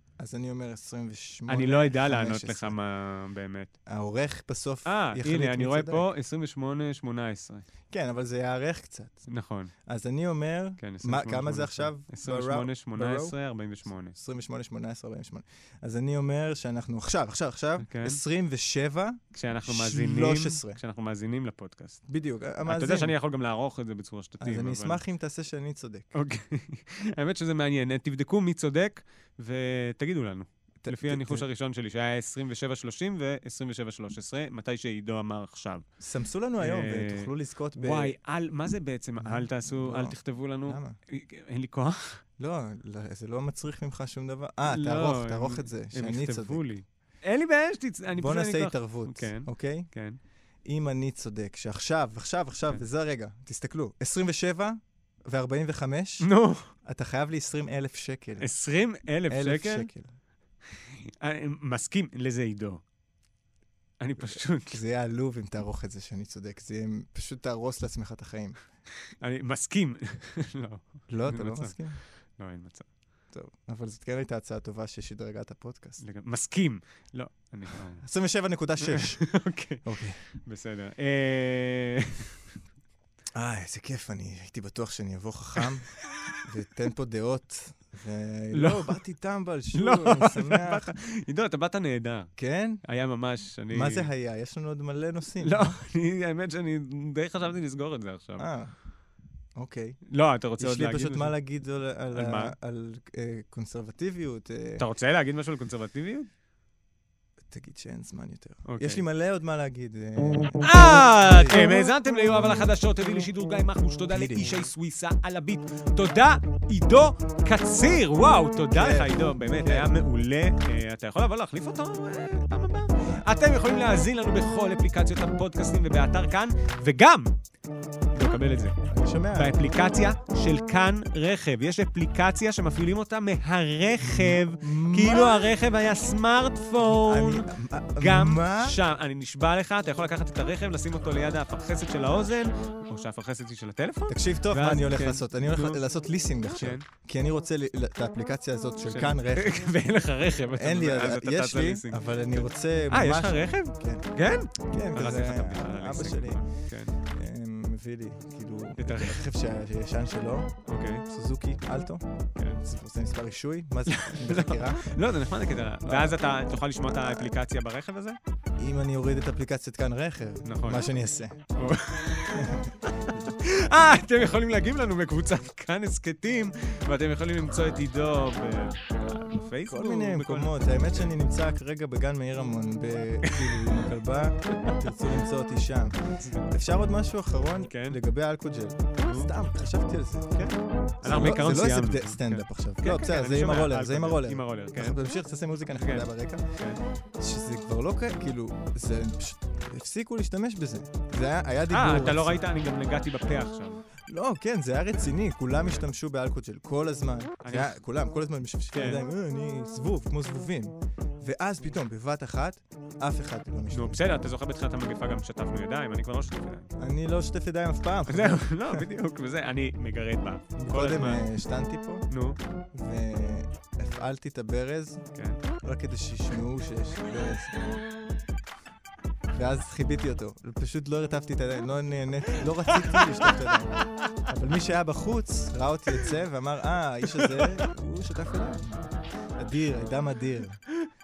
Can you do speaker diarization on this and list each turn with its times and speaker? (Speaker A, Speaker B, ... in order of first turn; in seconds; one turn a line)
Speaker A: 0.2-2.8
Speaker B: 1.5-3.7
Speaker A: 3.9-6.0
Speaker B: 4.8-7.6
Speaker A: 7.9-9.3
Speaker B: 9.3-9.7
Speaker A: 9.8-13.3
Speaker B: 10.8-14.2
Speaker A: 14.1-20.8
Speaker B: 17.8-18.2
Speaker B: 19.3-22.0
Speaker A: 22.1-23.1
Speaker B: 22.6-25.0
Speaker A: 24.4-26.1
Speaker B: 26.1-35.8
Speaker A: 30.8-31.4
Speaker A: 36.0-38.1
Speaker B: 36.6-42.2
Speaker A: 39.2-41.0
Speaker A: 42.4-46.6
Speaker B: 44.6-50.2
Speaker A: 48.1-49.9
Speaker A: 50.6-56.3
Speaker B: 56.2-56.7
Speaker A: 56.8-58.5
Speaker B: 58.4-59.9
Speaker A: 59.3-60.1
Speaker B: 60.8-62.8
Speaker B: 64.0-64.8
Speaker A: 64.3-68.6
Speaker B: 69.2-71.8
Speaker A: 71.1-72.0
Speaker B: 72.4-72.9
Speaker A: 73.3-76.0
Speaker B: 76.0-78.0
Speaker A: 78.0-79.3
Speaker B: 78.8-82.4
Speaker A: 79.8-80.2
Speaker A: 83.3-90.9
Speaker B: 85.6-86.4
Speaker B: 88.5-89.0
Speaker B: 89.7-92.3
Speaker A: 92.4-92.8
Speaker B: 92.8-94.1
Speaker A: 93.7-95.7
Speaker B: 95.4-98.5
Speaker A: 98.4-98.7
Speaker A: 99.5-100.0
Speaker B: 100.1-101.3
Speaker A: 100.6-104.8
Speaker B: 102.1-102.5
Speaker B: 104.8-106.3
Speaker A: 107.4-111.7
Speaker B: 108.7-109.0
Speaker B: 110.6-127.3
Speaker A: 114.1-114.6
Speaker A: 118.7-119.9
Speaker B: 128.1-128.8
Speaker A: 128.9-129.5
Speaker B: 129.3-145.8
Speaker A: 134.0-135.5
Speaker A: 136.8-138.8
Speaker A: 144.1-149.5
Speaker B: 146.6-146.8
Speaker B: 148.9-156.9
Speaker A: 150.5-154.1
Speaker A: 154.6-156.5
Speaker A: 157.0-164.9
Speaker B: 158.8-159.2
Speaker B: 160.7-161.1
Speaker B: 162.3-162.6
Speaker B: 163.9-168.2
Speaker A: 165.8-166.2
Speaker A: 166.8-167.3
Speaker A: 168.6-171.4
Speaker B: 170.4-170.9
Speaker B: 171.5-181.1
Speaker A: 172.3-172.7
Speaker A: 179.6-190.3
Speaker B: 183.2-183.9
Speaker B: 184.5-184.8
Speaker B: 186.2-186.5
Speaker B: 187.7-188.0
Speaker B: 189.0-189.3
Speaker B: 190.3-195.0
Speaker A: 191.0-196.4
Speaker B: 195.8-196.8
Speaker A: 197.2-202.4
Speaker B: 201.7-203.8
Speaker A: 204.1-214.1
Speaker B: 207.4-207.8
Speaker B: 208.7-209.0
Speaker B: 213.7-216.7
Speaker A: 216.8-218.9
Speaker B: 218.1-221.2
Speaker A: 220.6-222.1
Speaker B: 222.1-222.4
Speaker A: 222.7-225.1
Speaker B: 225.1-225.4
Speaker A: 225.6-227.6
Speaker A: 229.3-240.6
Speaker B: 232.8-233.3